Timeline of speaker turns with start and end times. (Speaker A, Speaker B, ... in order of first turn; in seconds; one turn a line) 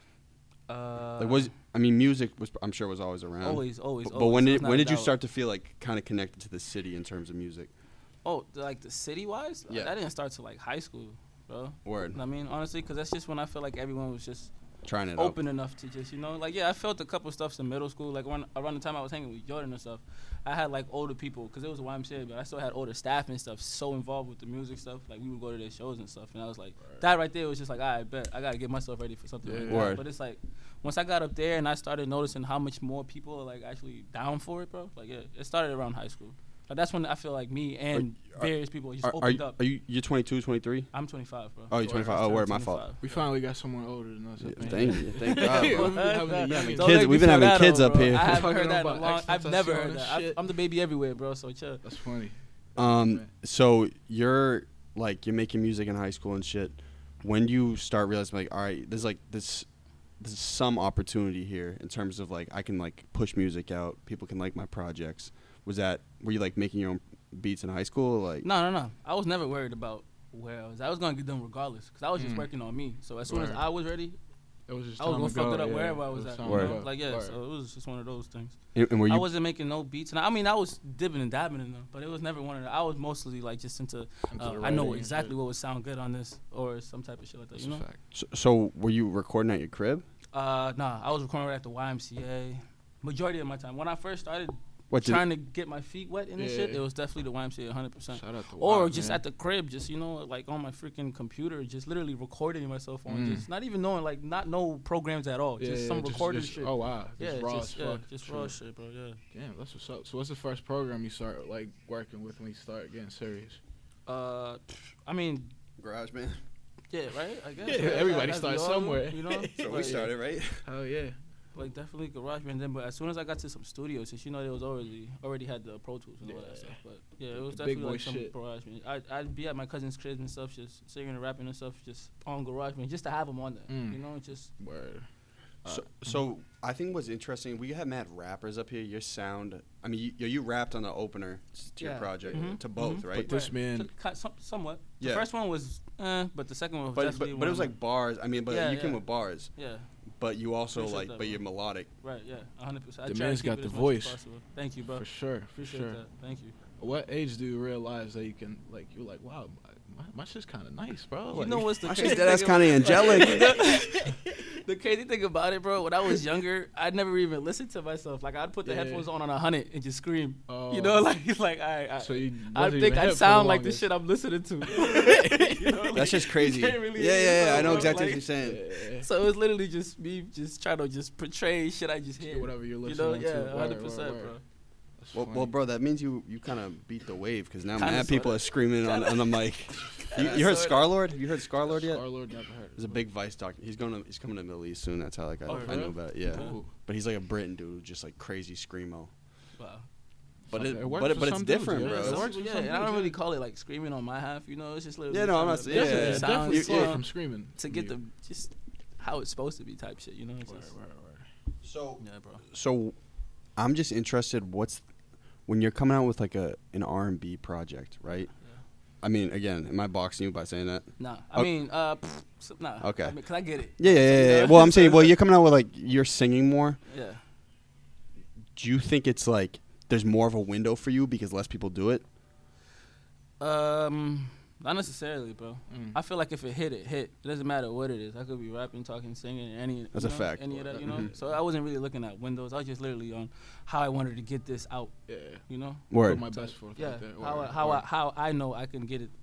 Speaker A: 0.7-1.5
Speaker B: 1.2-7.7
Speaker A: 3.4-5.2
Speaker A: 8.2-14.5
Speaker B: 11.8-12.2
Speaker B: 14.8-15.4
Speaker A: 15.1-39.6
Speaker C: 29.4-30.0
Speaker B: 29.7-30.0
Speaker B: 37.9-38.5
Speaker B: 39.0-40.9
Speaker A: 40.9-43.2
Speaker B: 41.7-42.8
Speaker C: 41.8-42.4
Speaker C: 43.0-47.1
Speaker B: 44.4-48.4
Speaker A: 44.7-51.8
Speaker C: 48.1-50.4
Speaker C: 51.8-53.3
Speaker B: 52.8-59.7
Speaker B: 60.2-68.5
Speaker A: 68.4-74.2
Speaker C: 72.2-72.5
Speaker C: 73.2-73.6
Speaker C: 74.7-77.3
Speaker A: 75.0-87.8
Speaker B: 76.4-76.8
Speaker B: 78.7-79.3
Speaker C: 84.3-85.3
Speaker C: 87.5-88.0
Speaker B: 88.1-90.0
Speaker A: 90.3-109.2
Speaker B: 94.9-95.2
Speaker C: 96.4-96.8
Speaker C: 98.1-99.2
Speaker C: 103.1-103.5
Speaker C: 105.6-108.5
Speaker C: 109.3-113.6
Speaker A: 114.0-115.5
Speaker B: 115.8-116.4
Speaker A: 116.9-120.1
Speaker C: 117.6-121.2
Speaker B: 119.6-120.6
Speaker A: 121.5-134.5
Speaker C: 126.2-126.8
Speaker C: 127.3-128.3
Speaker C: 133.7-134.0
Speaker C: 134.6-135.1
Speaker B: 135.6-143.3
Speaker A: 141.8-147.7
Speaker C: 143.1-143.9
Speaker B: 145.0-145.3
Speaker B: 146.9-149.5
Speaker A: 148.5-149.0
Speaker A: 149.5-149.9
Speaker B: 150.2-151.9
Speaker A: 150.7-151.4
Speaker A: 152.0-156.5
Speaker C: 153.1-154.2
Speaker C: 154.9-156.0
Speaker C: 156.8-162.2
Speaker A: 161.3-178.3
Speaker B: 161.8-163.6
Speaker C: 163.0-164.1
Speaker C: 168.6-169.1
Speaker C: 170.5-171.1
Speaker C: 172.0-173.9
Speaker C: 174.7-176.1
Speaker B: 175.9-178.6
Speaker C: 177.4-179.1
Speaker A: 179.0-184.4
Speaker C: 182.2-184.3
Speaker C: 185.0-185.5
Speaker B: 185.1-192.1
Speaker A: 187.8-189.4
Speaker A: 190.0-191.0
Speaker C: 191.7-193.0
Speaker B: 192.8-199.1
Speaker A: 195.5-196.6
Speaker C: 195.5-196.7
Speaker A: 199.6-199.9
Speaker C: 200.5-203.2
Speaker B: 200.5-202.3
Speaker A: 201.8-207.0
Speaker B: 205.1-207.0
Speaker C: 205.7-207.9
Speaker A: 207.5-210.7
Speaker C: 210.4-211.3
Speaker B: 211.6-212.9
Speaker A: 212.0-212.4
Speaker B: 213.6-214.8
Speaker B: 215.5-218.3
Speaker B: 219.0-221.5
Speaker A: 221.0-225.2
Speaker B: 222.8-223.2
Speaker B: 223.8-226.8
Speaker A: 226.9-227.2
Speaker B: 228.6-232.0
Speaker A: 233.4-244.9
Speaker C: 235.7-236.0
Speaker B: 239.9-241.1
Speaker C: 240.7-241.3
Speaker C: 245.1-247.8
Speaker A: 245.5-249.1
Speaker B: 245.9-246.2